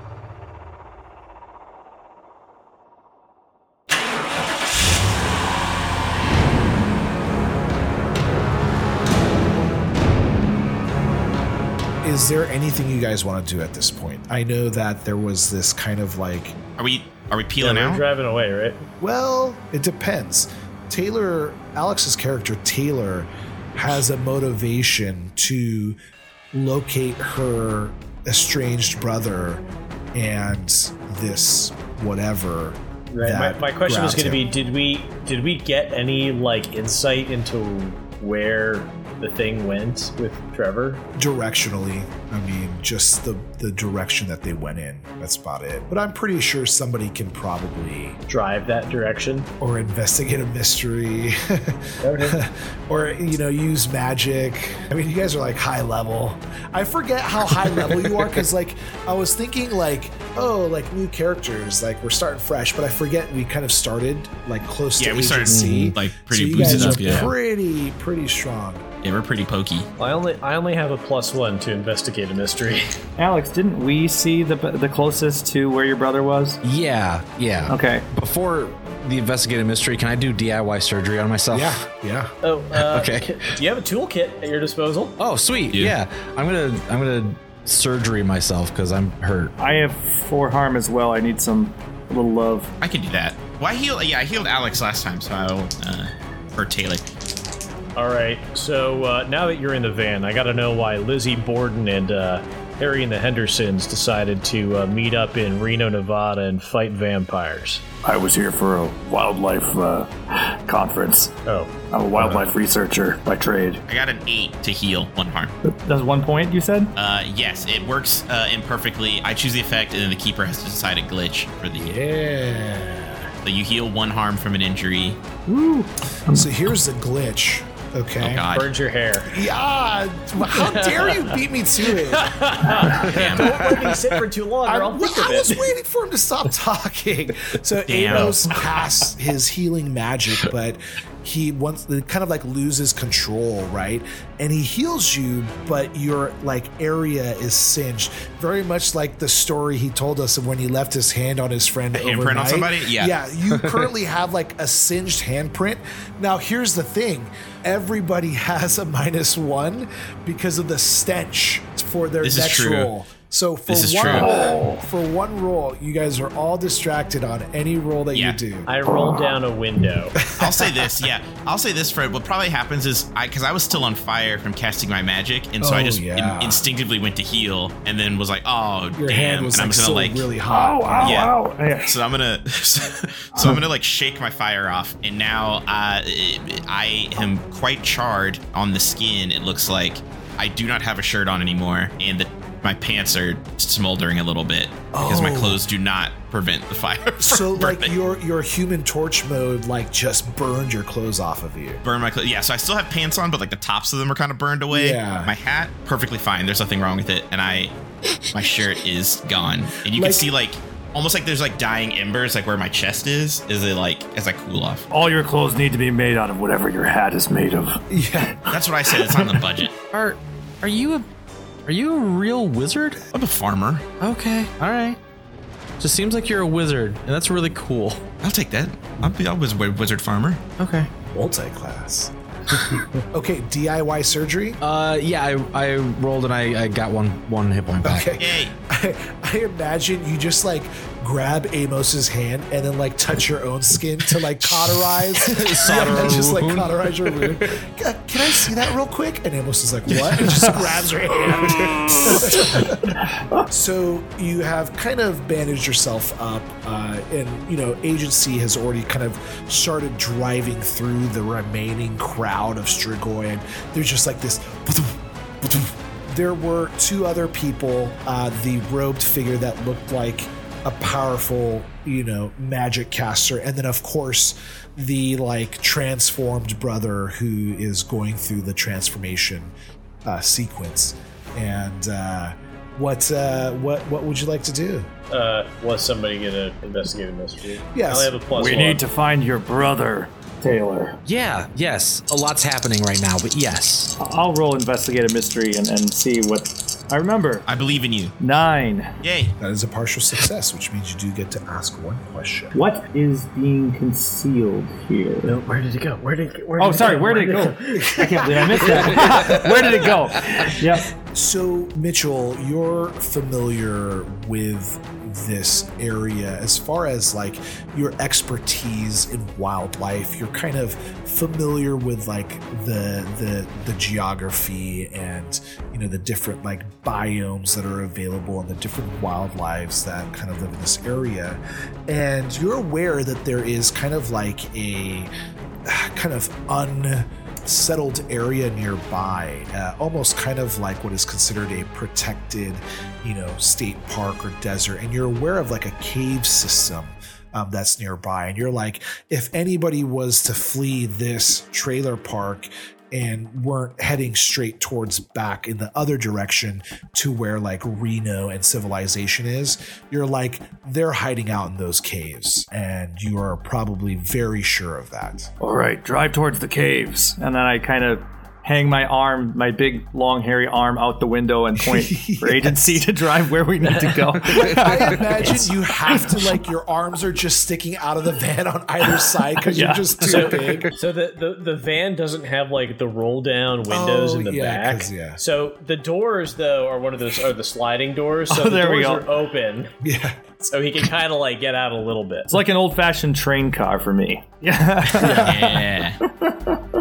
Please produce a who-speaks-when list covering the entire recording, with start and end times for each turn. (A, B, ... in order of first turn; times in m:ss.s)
0:12.0-0:16.6 A
0:16.8-0:18.0 B
0:17.6-0:18.9 C
0:19.0-0:26.0 A
0:26.5-0:34.4 A
0:33.1-0:41.0 C
0:41.2-0:48.2 A
0:48.3-0:49.5 C
0:49.6-1:08.9 A
0:52.0-0:52.4 C
1:05.0-1:07.3 B
1:05.5-1:06.0 D
1:06.6-1:07.3 D
1:09.0-1:09.9 B
1:10.0-1:12.9 C
1:13.2-1:16.6 E
1:16.6-1:21.8 D
1:17.7-1:18.1 E
1:21.5-1:22.3 A
1:22.4-1:25.2 C
1:22.8-1:23.3 D
1:25.2-1:29.5 D
1:29.6-1:32.7 E
1:32.8-1:37.0 B
1:38.0-1:47.8 C
1:48.0-1:51.4 E
1:51.5-1:52.4 C
1:51.9-1:53.8 E
1:53.9-1:55.5 B
1:55.6-1:56.9 E
1:57.0-2:02.0 B
2:01.8-2:03.3 A
2:03.4-2:05.2 B
2:05.5-2:06.5 E
2:06.3-2:08.5 A
2:08.2-2:08.7 B
2:08.5-2:09.4 C
2:09.2-2:12.4 A
2:10.5-2:11.4 C
2:11.9-2:15.7 C
2:12.8-2:13.6 B
2:14.7-2:48.7 A
2:17.9-2:18.7 B
2:31.9-2:33.2 B
2:42.2-2:42.9 B
2:43.7-2:44.5 B
2:44.1-2:44.8 E
2:48.1-2:48.4 B
2:48.7-2:50.2 C
2:50.2-2:50.9 A
2:50.4-3:00.3 B
2:55.6-2:56.6 A
2:58.9-3:01.3 A
3:00.5-3:02.0 E
3:01.0-3:17.9 B
3:14.9-3:15.6 A
3:17.2-3:21.8 A
3:21.8-3:27.7 B
3:24.7-3:25.3 A
3:28.3-3:34.9 B
3:29.9-3:30.3 A
3:34.9-3:39.4 E
3:37.9-3:38.4 A
3:38.5-3:39.7 B
3:39.9-3:41.1 D
3:41.7-3:43.0 D
3:43.1-3:43.9 B
3:44.0-3:45.0 D
3:45.8-3:48.0 D
3:48.2-3:50.4 B
3:50.6-3:50.9 D
3:51.1-3:52.1 A
3:52.7-3:54.6 A
3:54.6-3:58.1 D
3:57.8-4:39.5 A
3:58.2-3:58.5 B
4:05.2-4:07.5 D
4:10.1-4:10.4 B
4:11.5-4:12.2 D
4:40.0-4:44.9 A
4:45.1-4:48.8 C
4:47.7-4:48.1 A
4:48.3-4:51.0 E
4:51.1-4:53.9 D
4:54.0-4:57.5 E
4:57.5-4:58.2 B
4:58.2-4:58.9 E
4:59.0-4:59.3 B
4:59.4-5:02.6 A
5:02.5-5:05.4 E
5:05.2-5:09.5 C
5:06.6-5:10.9 E
5:07.7-5:09.9 A
5:10.5-5:35.1 A
5:35.7-6:05.3 A
6:05.4-6:16.3 E
6:11.6-6:12.9 A
6:13.6-6:14.7 C
6:14.3-6:20.7 A
6:19.0-6:20.5 E
6:20.0-6:29.7 C
6:23.7-6:25.2 A
6:28.3-6:29.1 E
6:29.8-6:30.5 A
6:30.5-6:32.4 C
6:32.3-6:36.6 E
6:34.9-6:36.0 B
6:34.9-6:35.6 A